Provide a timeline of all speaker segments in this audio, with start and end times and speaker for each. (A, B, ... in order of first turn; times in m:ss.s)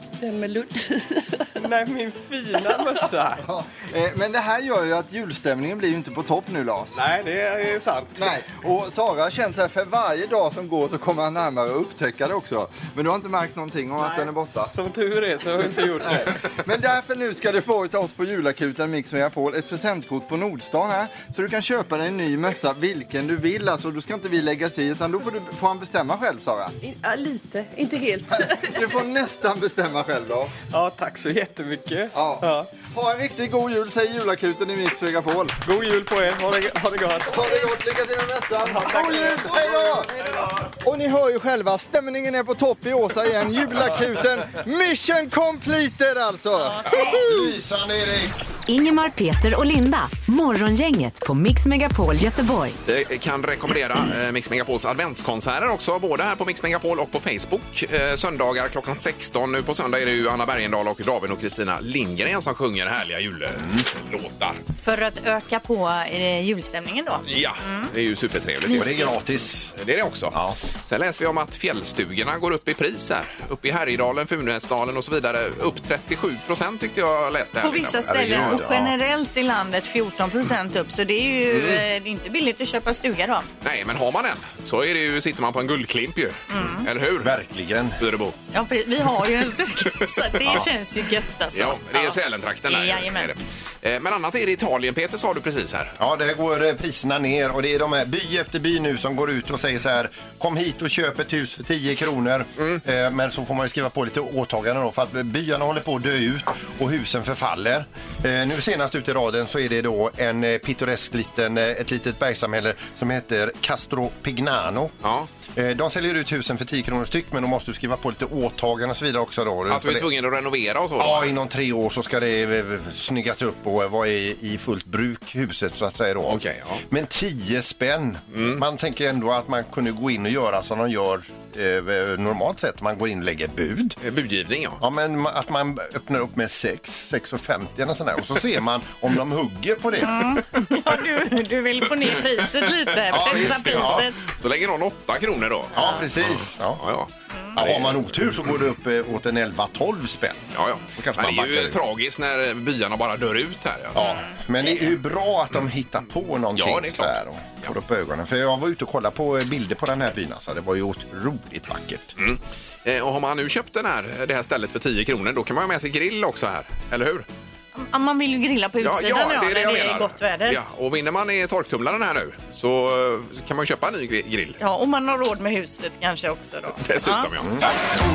0:00.2-0:01.5 A
0:01.6-0:03.4 B
0:03.4-0:07.0 C
0:06.9-0:08.3 B
0:08.2-0:14.7 C
0:14.0-0:16.3 B
0:16.0-0:26.7 C
0:26.8-0:29.0 A
0:28.3-0:30.6 C
0:30.7-0:32.7 B
0:32.1-0:35.6 C
0:35.6-0:37.5 B
0:37.2-0:47.4 C
0:38.6-0:40.4 B
0:46.6-0:47.2 D
0:46.9-0:48.4 E
0:48.7-0:52.8 F
0:52.8-1:04.6 G
1:03.6-1:03.8 E
1:04.8-1:07.9 D
1:07.3-1:18.6 G
1:08.7-1:09.7 E
1:10.3-1:10.6 E
1:17.6-1:23.5 D
1:18.1-1:18.9 E
1:21.5-1:21.8 G
1:23.6-1:27.3 G
1:26.5-1:26.8 D
1:27.2-1:28.0 E
1:28.0-1:28.4 G
1:28.5-1:33.3 D
1:29.9-1:30.7 G
1:31.5-1:35.9 G
1:36.0-1:54.9 E
1:55.0-1:55.3 G
1:55.5-2:00.1 E
1:59.7-2:01.3 G
2:01.0-2:14.0 E
2:06.2-2:06.8 G
2:08.3-2:08.6 G
2:14.0-2:14.8 G
2:14.8-2:20.4 E
2:20.0-2:24.2 D
2:23.1-2:24.1 E
2:23.1-2:28.1 G
2:25.7-2:26.8 E
2:25.8-2:26.0 D
2:27.6-2:31.8 E
2:30.5-2:34.0 G
2:33.9-2:42.1 E
2:34.0-2:34.4 D
2:36.5-2:37.7 G
2:42.2-2:47.2 G
2:47.8-2:50.6 D
2:48.8-2:54.6 G
2:54.6-2:57.3 D
2:56.8-2:57.8 G